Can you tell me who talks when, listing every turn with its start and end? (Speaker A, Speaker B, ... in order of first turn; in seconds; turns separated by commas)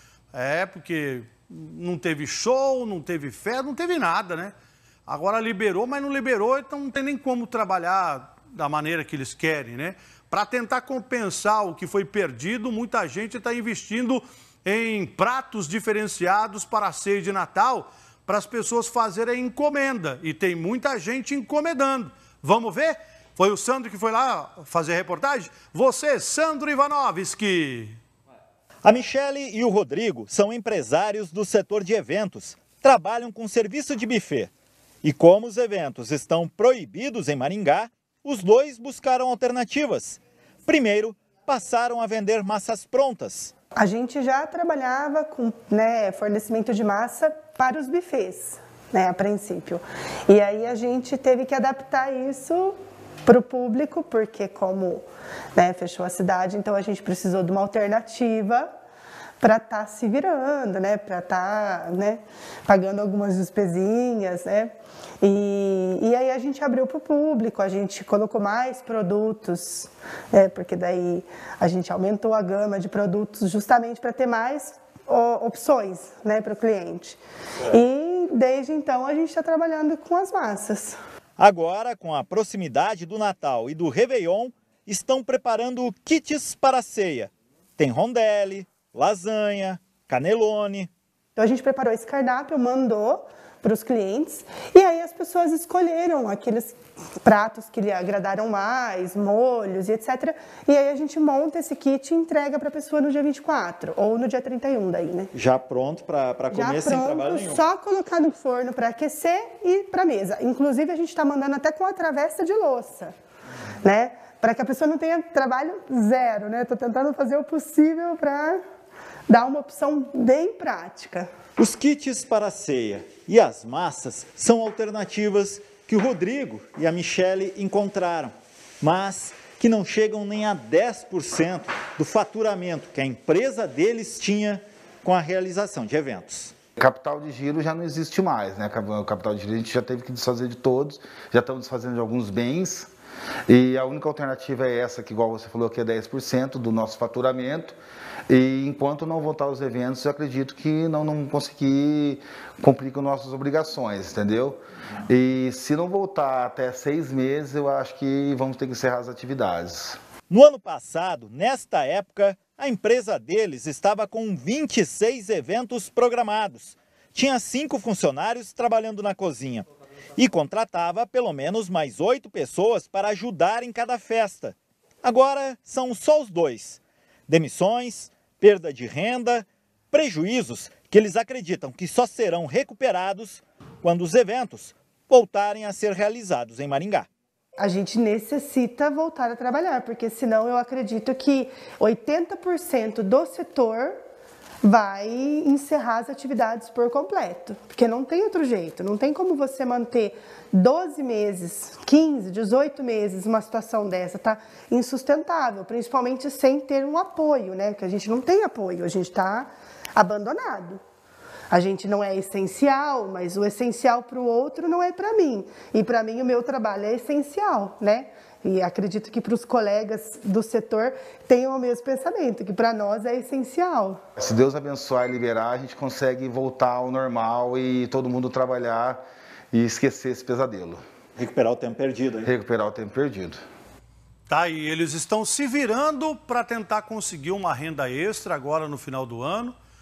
Speaker A: 0.3-4.5, Speaker A: 5.1-28.0, Speaker B: 28.8-34.5, Speaker B: 35.0-43.5, Speaker C: 43.8-52.7, Speaker C: 53.3-58.7, Speaker C: 59.4-81.0, Speaker B: 81.4-90.9, Speaker C: 91.4-105.3, Speaker B: 105.3-107.6, Speaker C: 106.5-113.1, Speaker C: 113.8-118.6, Speaker C: 119.3-121.3, Speaker B: 121.6-136.6, Speaker D: 136.8-142.9, Speaker D: 143.5-147.8, Speaker D: 148.3-160.0, Speaker B: 160.3-187.1, Speaker C: 187.6-194.0, Speaker C: 194.6-210.8, Speaker C: 211.5-224.0, Speaker D: 224.2-229.0, Speaker D: 229.5-230.8, Speaker B: 231.2-232.3, Speaker D: 232.2-233.4, Speaker A: 234.3-239.5